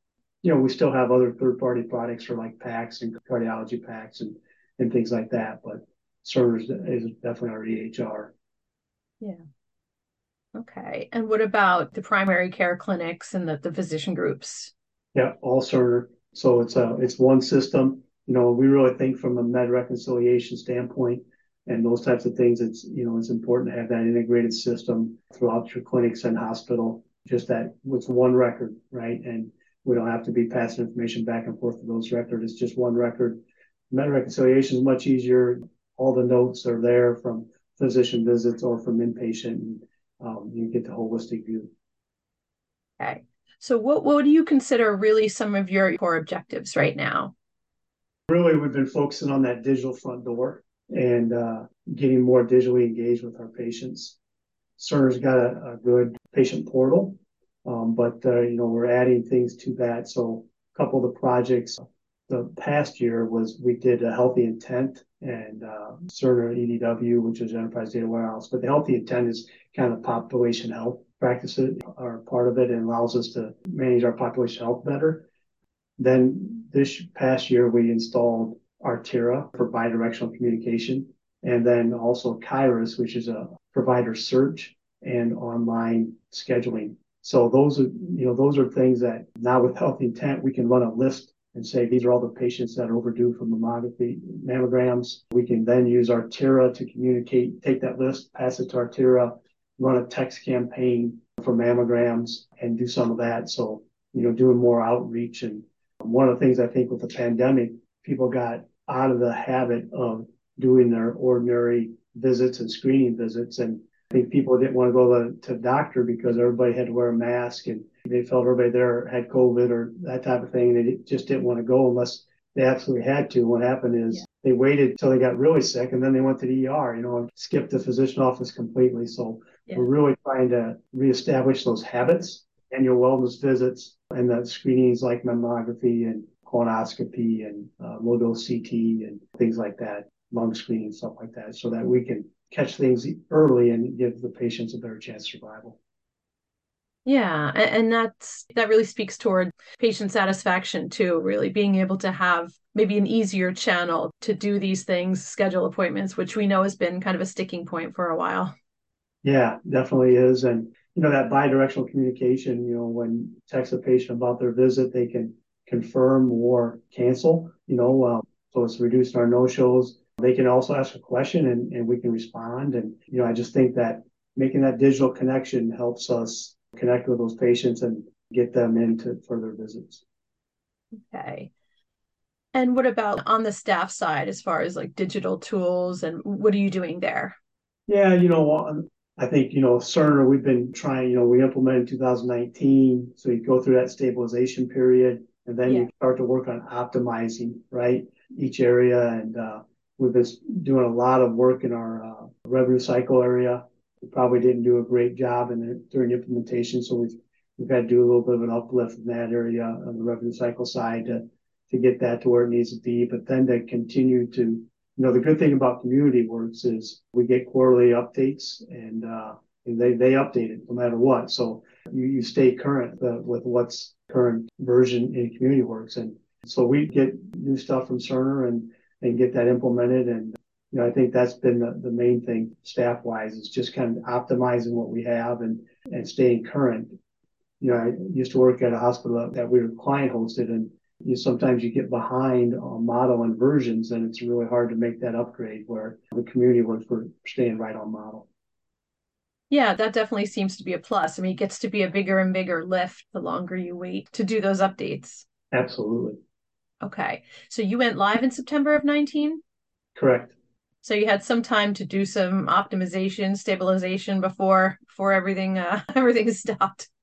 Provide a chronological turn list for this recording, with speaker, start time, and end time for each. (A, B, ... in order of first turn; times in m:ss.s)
0:00.4-0:08.3 A
0:10.5-0:14.7 B
0:15.1-0:41.7 A
0:43.0-0:47.3 B
0:48.3-0:54.2 A
0:54.8-1:15.3 A
1:16.0-2:25.8 A
2:27.0-2:38.5 B
2:39.2-3:00.0 A
3:01.1-3:01.5 B
3:02.5-3:07.3 B
3:07.9-3:56.9 A
3:57.6-4:08.3 A
4:09.5-4:15.2 B
4:15.5-4:16.2 A
4:16.8-4:19.4 B
4:19.9-4:20.3 A
4:20.8-4:26.9 B